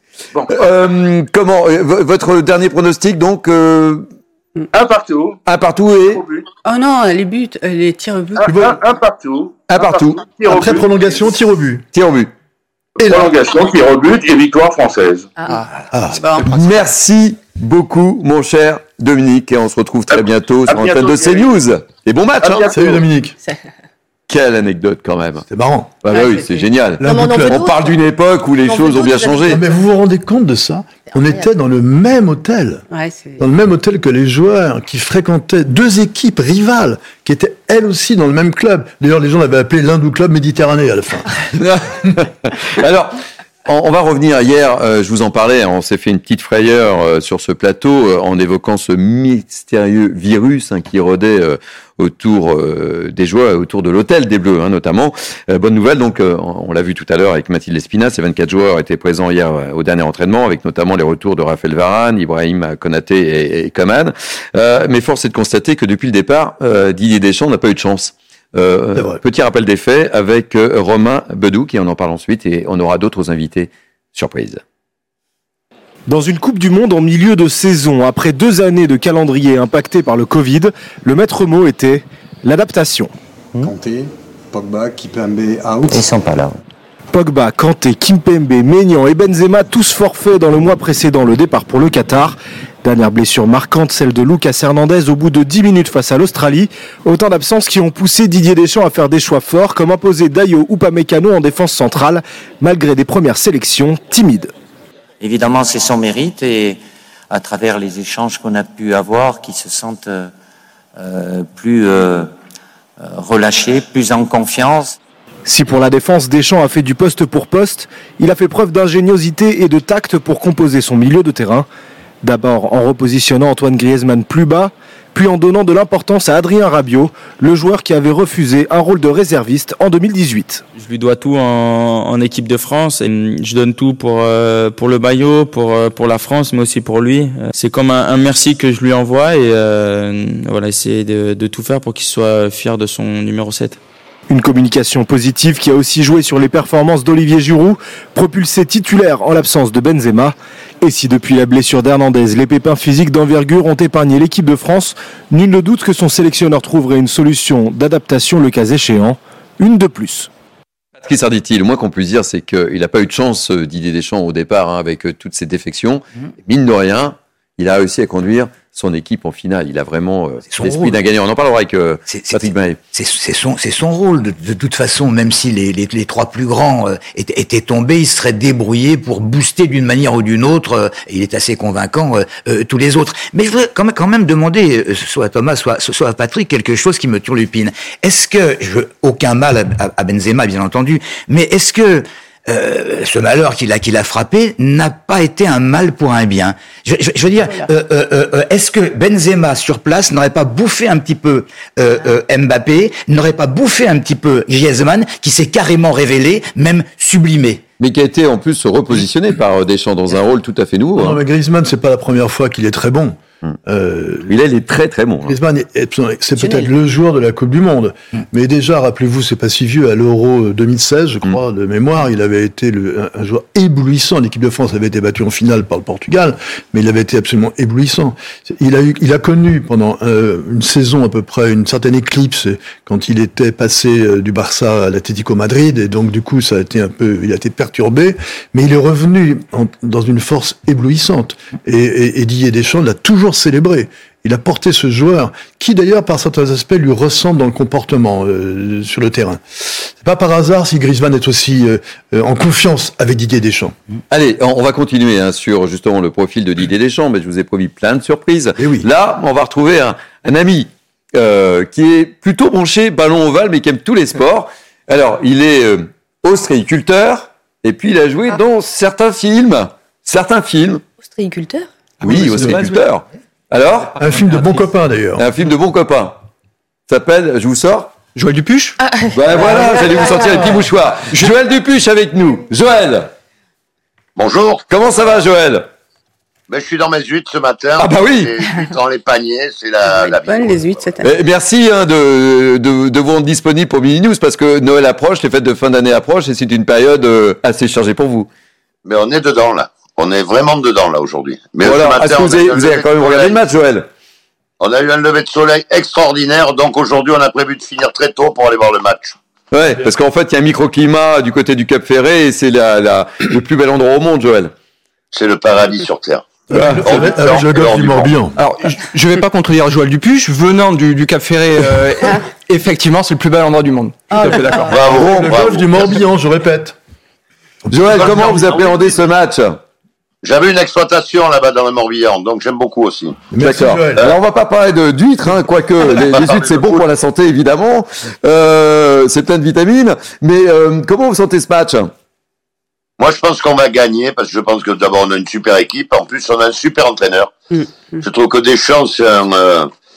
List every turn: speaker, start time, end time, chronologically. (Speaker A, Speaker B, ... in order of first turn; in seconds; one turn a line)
Speaker A: 0.3-0.7
Speaker B: 0.5-4.0
Speaker A: 4.7-5.4
Speaker B: 5.5-6.2
Speaker A: 6.1-6.5
Speaker C: 6.6-8.5
Speaker A: 8.4-11.3
Speaker D: 8.4-8.8
Speaker B: 9.7-10.3
Speaker D: 10.4-11.8
Speaker B: 11.9-12.3
Speaker D: 13.0-13.3
Speaker A: 13.0-15.3
Speaker D: 15.9-16.6
Speaker C: 16.2-16.4
Speaker B: 16.4-23.0
Speaker A: 20.1-21.6
Speaker A: 22.4-22.7
Speaker D: 22.7-23.3
Speaker B: 24.3-25.4
Speaker D: 25.5-25.9
Speaker B: 26.0-29.6
Speaker C: 26.1-26.5
Speaker D: 27.0-27.7
Speaker E: 27.0-27.9
Speaker E: 28.6-29.6
Speaker D: 29.4-32.8
Speaker E: 31.1-31.4
Speaker C: 32.9-33.4
Speaker D: 33.4-41.3
Speaker B: 41.6-74.6
Speaker D: 68.9-69.2
Speaker F: 76.1-83.1
Speaker G: 83.6-86.0
Speaker H: 85.9-86.5
Speaker F: 87.1-104.5
Speaker H: 105.2-110.3
Speaker H: 111.0-112.3
Speaker H: 113.0-115.0
Speaker F: 115.4-121.7
Speaker F: 122.2-130.7
Speaker I: 130.7-143.8
Speaker F: 144.3-160.3
Speaker B: 161.0-172.8
Speaker J: 170.5-171.0
Speaker J: 172.1-207.6
Speaker B: 207.8-211.2
Speaker D: 210.9-214.3
Speaker B: 214.3-215.3
Speaker D: 215.2-253.7
Speaker C: 216.4-216.7
Speaker B: 254.1-270.8
Speaker D: 258.6-258.9
Speaker E: 271.0-271.7
Speaker D: 272.0-272.6
Speaker B: 272.0-274.5
Speaker D: 274.0-275.2
Speaker B: 275.1-276.2
Speaker B: 276.9-277.9
Speaker K: 278.1-278.8
Speaker E: 278.8-280.5
Speaker B: 279.1-283.1
Speaker L: 284.1-284.6
Speaker B: 284.7-285.7
Speaker L: 286.5-290.6
Speaker B: 287.8-288.3
Speaker C: 289.9-291.1
Speaker B: 291.0-298.3
Speaker L: 298.8-303.4
Speaker B: 301.6-303.9
Speaker L: 304.6-309.1
Speaker B: 309.5-314.5
Speaker L: 315.1-318.2
Speaker D: 316.5-318.4
Speaker B: 316.5-317.1
Speaker K: 318.4-324.7
Speaker E: 324.1-324.8
Speaker L: 324.7-325.6
Speaker D: 324.7-326.7
Speaker B: 324.9-325.6
Speaker B: 327.7-329.6
Speaker L: 327.9-329.0
Speaker L: 330.2-333.2
Speaker D: 333.3-334.1
Speaker B: 333.4-341.9
Speaker L: 335.8-336.8
Speaker L: 343.0-347.3
Speaker C: 347.5-348.0
Speaker L: 348.0-349.7